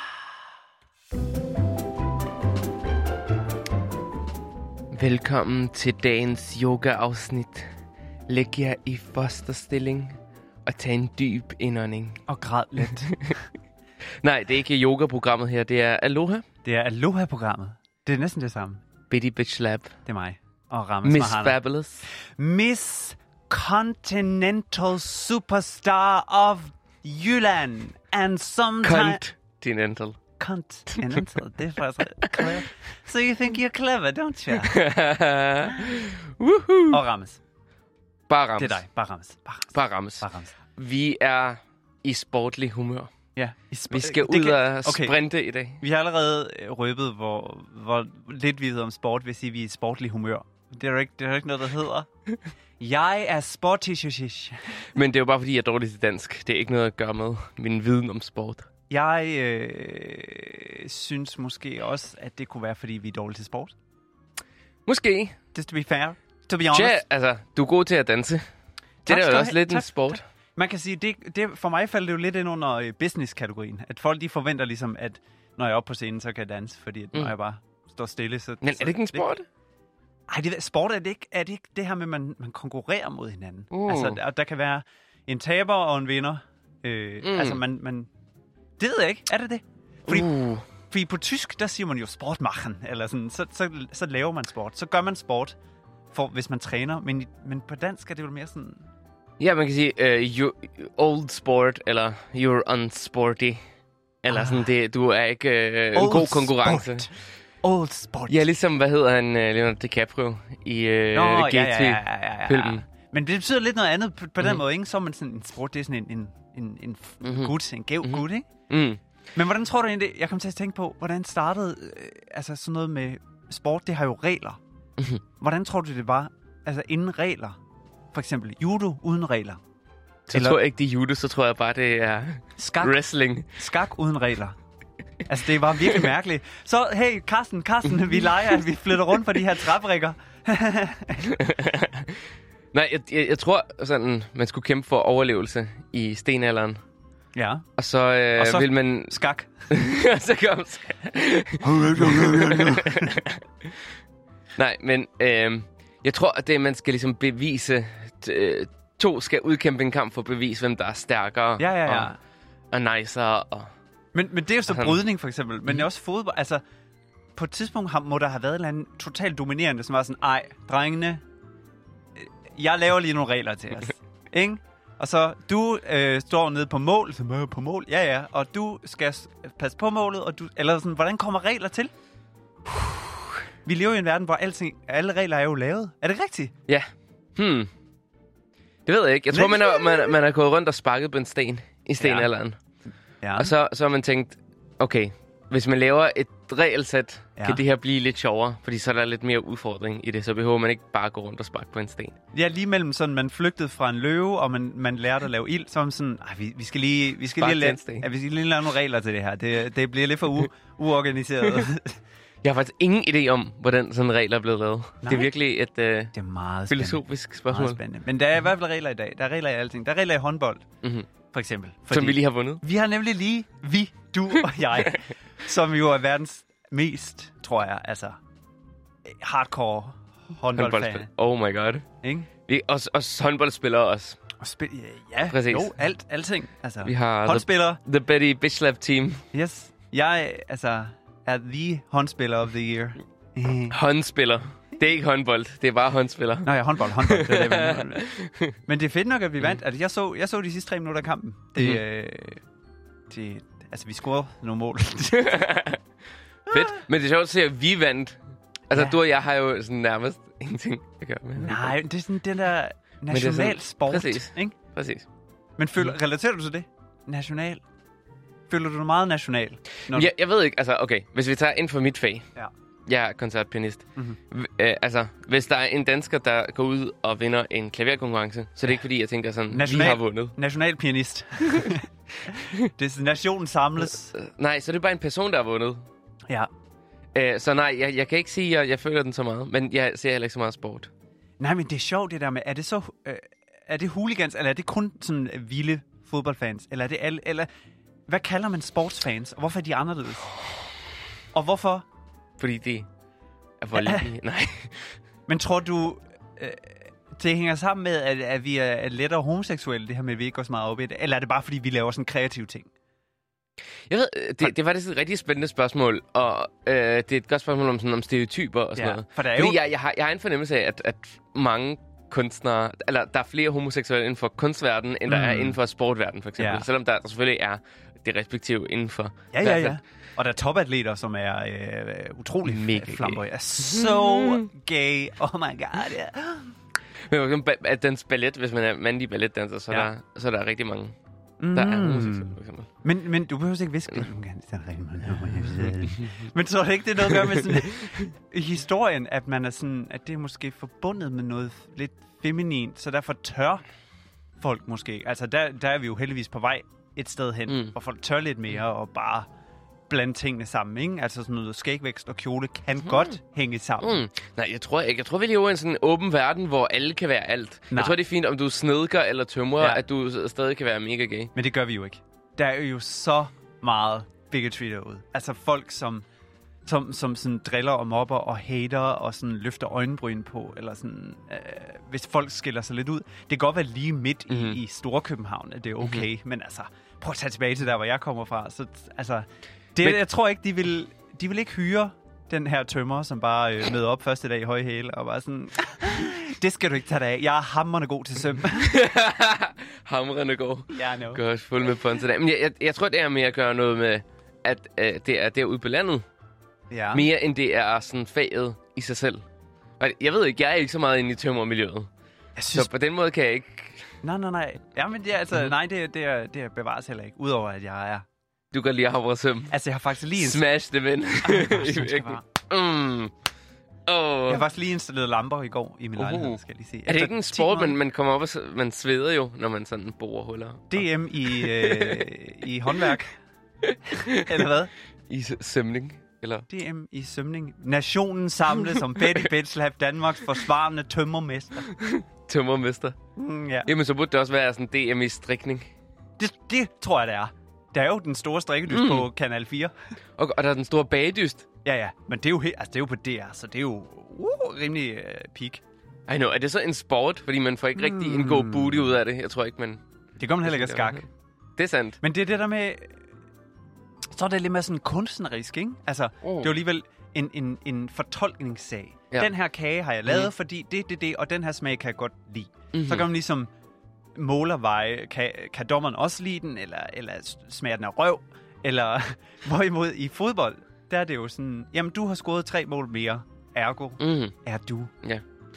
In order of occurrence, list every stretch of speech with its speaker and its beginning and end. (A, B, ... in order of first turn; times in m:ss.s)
0:04.9-0:07.7 A
0:08.3-0:12.2 A
0:12.3-0:13.5 B
0:14.2-0:16.4 A
0:16.6-0:18.8 B
0:19.1-0:20.0 A
0:20.0-0:21.6 B
0:21.0-0:22.1 A
0:22.3-0:29.2 B
0:28.8-0:30.2 A
0:30.4-0:34.8 B
0:30.9-0:31.2 A
0:32.2-0:32.5 A
0:34.5-0:37.0 A
0:35.7-0:36.0 B
0:36.9-0:37.4 B
0:38.3-0:38.8 A
0:38.6-0:40.5 B
0:39.7-0:43.1 A
0:43.3-0:45.2 B
0:43.9-0:45.8 A
0:45.8-0:52.1 B
0:52.8-0:54.8 B
0:54.9-0:58.7 A
0:58.9-1:03.7 B
1:04.9-1:05.3 A
1:05.5-1:07.0 B
1:06.7-1:08.4 A
1:09.0-1:10.2 A
1:09.0-1:19.3 B
1:18.6-1:19.4 A
1:20.3-1:28.1 B
1:23.7-1:24.2 A
1:27.2-1:27.6 A
1:28.8-1:30.3 B
1:30.1-1:30.6 A
1:30.9-1:35.6 B
1:36.1-1:38.9 B
1:39.4-1:43.6 A
1:44.2-1:47.1 A
1:44.3-1:44.7 B
1:45.9-1:47.1 B
1:47.6-1:48.5 B
1:48.3-1:52.8 A
1:51.1-1:58.5 B
1:57.2-1:59.0 A
1:59.3-2:04.6 B
2:05.4-2:07.6 B
2:08.1-2:09.6 B
2:10.3-2:13.5 A
2:10.3-2:10.6 B
2:12.6-2:13.0 B
2:13.6-2:14.6 B
2:15.3-2:21.4 B
2:21.3-2:22.2 A
2:22.7-2:26.8 A
2:27.3-2:27.7 B
2:27.8-2:29.2 A
2:28.4-2:29.5 B
2:29.7-2:33.7 A
2:31.7-2:33.2 B
2:34.6-2:42.1 A
2:41.6-2:42.2 B
2:42.7-2:43.7 A
2:44.1-2:46.6 B
2:44.7-2:45.0 A
2:47.4-2:51.2 B
2:52.2-3:01.9 B
3:03.6-3:06.5 B
3:06.7-3:07.7 A
3:08.9-3:12.6 A
3:09.3-3:10.2 B
3:12.0-3:12.3 B
3:13.2-3:13.5 B
3:13.4-3:22.2 A
3:17.4-3:17.6 B
3:22.3-3:32.0 B
3:27.3-3:28.1 A
3:32.4-3:36.1 A
3:35.0-3:35.3 B
3:36.1-3:40.7 B
3:36.7-3:37.8 A
3:40.8-3:41.1 A
3:41.3-3:48.2 B
3:41.9-3:42.6 A
3:49.1-3:51.1 B
3:50.5-3:51.8 A
3:52.0-3:52.3 B
3:52.5-3:54.2 A
3:54.4-3:57.8 B
3:55.3-3:55.7 A
3:56.8-3:59.2 A
3:59.3-4:03.8 B
4:03.7-4:08.5 A
4:06.4-4:08.1 B
4:08.7-4:12.4 B
4:13.1-4:15.4 B
4:15.1-4:15.8 A
4:16.5-4:18.2 A
4:16.5-4:16.8 B
4:18.7-4:21.8 A
4:18.7-4:19.0 B
4:21.4-4:24.6 B
4:23.1-4:25.1 A
4:25.6-4:27.6 B
4:28.5-4:30.1 B
4:29.9-4:32.2 A
4:32.9-4:40.3 A
4:39.5-4:44.1 B
4:44.1-4:45.8 A
4:47.1-4:50.9 A
4:51.4-4:57.5 B
4:58.1-5:00.3 B
5:01.3-5:01.8 B
5:02.4-5:02.9 A
5:03.6-5:05.0 A
5:03.8-5:04.1 B
5:05.3-5:12.7 B
5:13.9-5:29.8 A
5:18.8-5:19.6 B
5:25.1-5:25.6 B
5:26.4-5:26.6 B
5:29.3-5:36.6 B
5:32.4-5:34.4 A
5:37.1-5:41.0 A
5:41.4-5:53.6 B
5:41.5-5:42.7 A
5:45.6-5:46.2 A
5:47.1-5:48.0 A
5:54.4-5:59.3 B
5:57.5-5:57.7 A
5:59.9-6:04.0 B
6:03.8-6:11.3 A
6:07.7-6:08.0 B
6:11.3-6:16.0 B
6:16.6-6:38.7 B
6:24.3-6:24.6 A
6:25.8-6:26.1 A
6:38.4-6:46.0 A
6:40.7-6:41.2 B
6:46.7-6:47.1 B
6:46.9-6:49.2 A
6:49.8-6:51.9 A
6:52.4-6:52.7 B
6:52.5-6:53.9 A
6:54.0-6:58.0 B
6:58.5-6:59.5 A
6:59.5-7:00.4 B
7:00.1-7:03.1 A
7:01.2-7:02.2 B
7:03.8-7:04.4 A
7:04.3-7:07.8 B
7:06.0-7:12.1 A
7:10.7-7:13.1 B
7:13.7-7:14.5 A
7:14.0-7:14.7 B
7:15.1-7:16.4 A
7:16.5-7:21.7 B
7:18.6-7:19.2 A
7:21.7-7:23.0 A
7:23.2-7:23.7 B
7:23.6-7:25.7 A
7:26.2-7:29.7 B
7:28.7-7:29.1 A
7:30.2-7:31.4 A
7:31.6-7:35.6 B
7:36.1-7:39.8 A
7:37.8-7:38.9 B
7:40.2-7:41.1 B
7:40.4-7:41.0 A
7:41.6-7:42.0 A
7:42.0-7:42.9 B
7:44.1-7:53.5 B
7:46.2-7:46.5 A
7:52.7-7:53.1 A
7:54.2-8:04.9 B
8:04.0-8:04.3 A